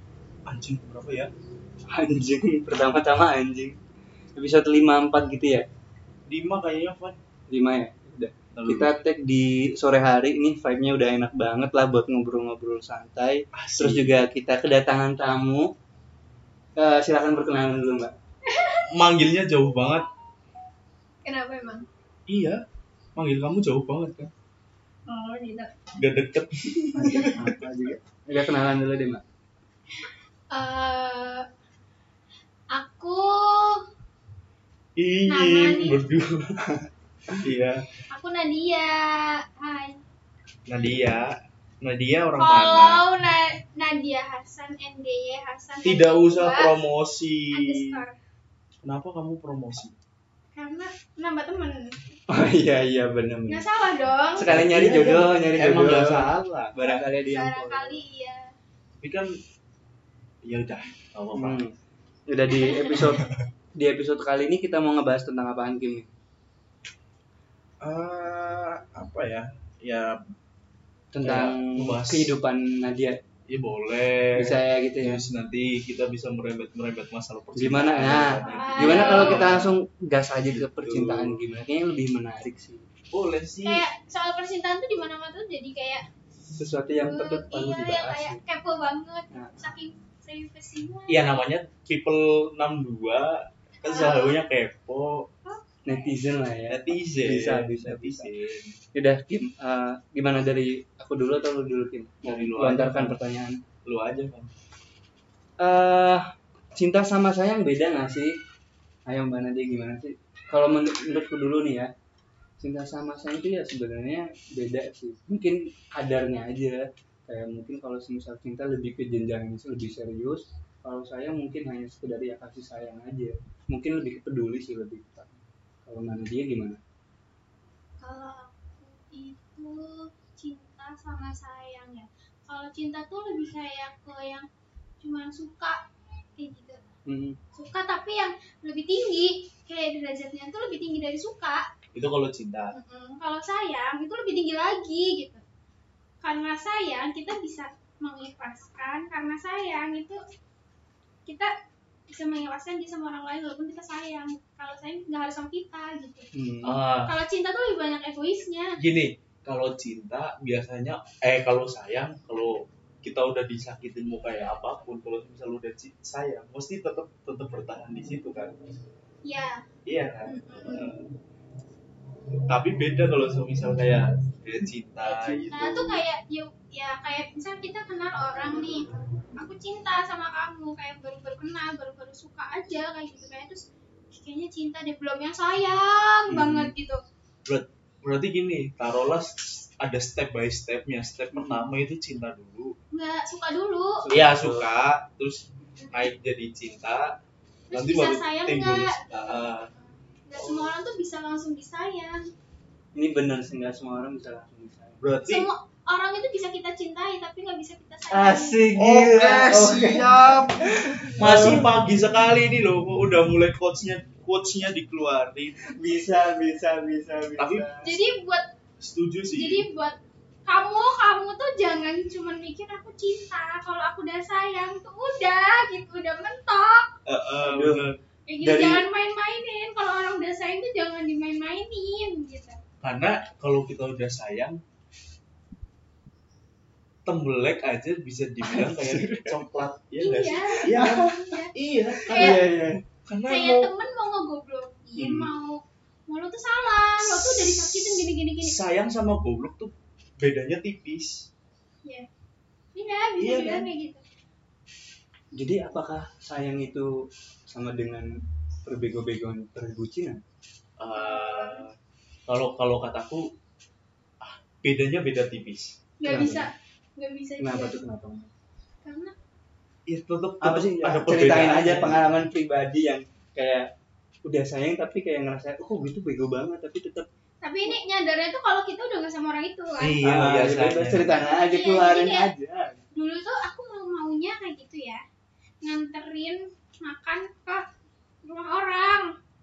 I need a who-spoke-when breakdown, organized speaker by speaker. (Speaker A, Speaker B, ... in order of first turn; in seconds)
Speaker A: 0.5-1.3, 6.3-7.2, 8.5-8.9, 13.5-14.2, 18.9-20.1, 22.3-22.6, 23.1-24.3, 25.9-27.6, 35.0-36.7, 37.3-37.9, 40.7-43.0, 45.8-48.0, 48.8-50.0, 54.5-56.9, 59.0-59.3, 60.4-61.6, 67.8-70.2, 71.2-72.3, 73.5-79.7, 80.8-81.4, 83.1-83.8, 91.1-95.3, 96.7-98.8, 102.2-103.2, 103.8-104.5, 141.9-142.7, 156.6-157.1, 158.8-168.5, 169.8-171.1, 172.5-176.0, 187.4-192.7, 194.1-197.2, 197.7-199.7, 200.3-200.7, 205.0-205.5, 208.8-215.7, 217.4-217.7, 218.8-219.7, 227.1-228.0, 232.8-234.6, 237.1-242.4, 243.0-243.7, 247.1-247.5, 248.4-251.3, 253.2-253.7, 260.8-261.7, 262.3-263.3, 264.2-265.8, 269.9-272.1, 279.8-281.2
Speaker B: 1.9-3.8, 4.3-5.7, 7.5-15.7, 16.8-18.1, 26.9-29.2, 52.3-53.6, 54.4-58.0, 61.3-61.7, 62.3-66.1, 71.1-73.2, 74.4-75.2, 77.6-82.8, 86.6-88.4, 89.3-89.7, 95.8-98.3, 98.9-103.6, 105.6-108.3, 109.1-111.9, 112.6-126.8, 137.1-137.4, 156.3-156.8, 186.3-186.7, 191.3-191.7, 194.0-194.7, 202.9-205.0, 208.1-211.7, 215.7-217.9, 227.4-227.9, 228.4-228.8, 238.4-239.4, 240.6-241.2, 242.1-242.8, 244.9-245.3, 255.3-256.9, 257.5-258.1, 258.6-260.2, 266.0-266.5, 267.4-268.3, 270.4-273.7, 274.2-277.1, 280.0-282.8
Speaker C: 18.4-18.9, 21.2-21.9, 25.1-25.7, 29.9-31.5, 32.7-33.8, 35.3-36.0, 38.1-40.0, 42.4-46.7, 47.5-48.2, 50.5-52.0, 53.5-54.5, 56.9-58.5, 62.5-63.3, 78.3-79.7, 83.6-86.0, 87.0-91.4, 93.8-94.4, 95.4-96.1, 128.0-134.5, 135.0-135.8, 136.4-136.8, 137.5-141.7, 142.7-145.4, 146.2-150.2, 151.2-151.5, 152.1-156.3, 157.0-158.8, 169.2-169.7, 170.3-170.9, 175.0-187.0, 192.9-194.0, 197.7-199.8, 200.3-202.3, 205.3-208.7, 217.8-218.4, 219.3-226.9, 228.3-232.6, 240.0-241.5, 242.1-242.4, 243.3-248.6, 252.7-254.0, 260.9-261.6, 266.0-267.8, 268.8-269.1, 277.4-280.0, 281.2-282.3, 282.9-285.0, 285.6-287.6, 288.2-289.1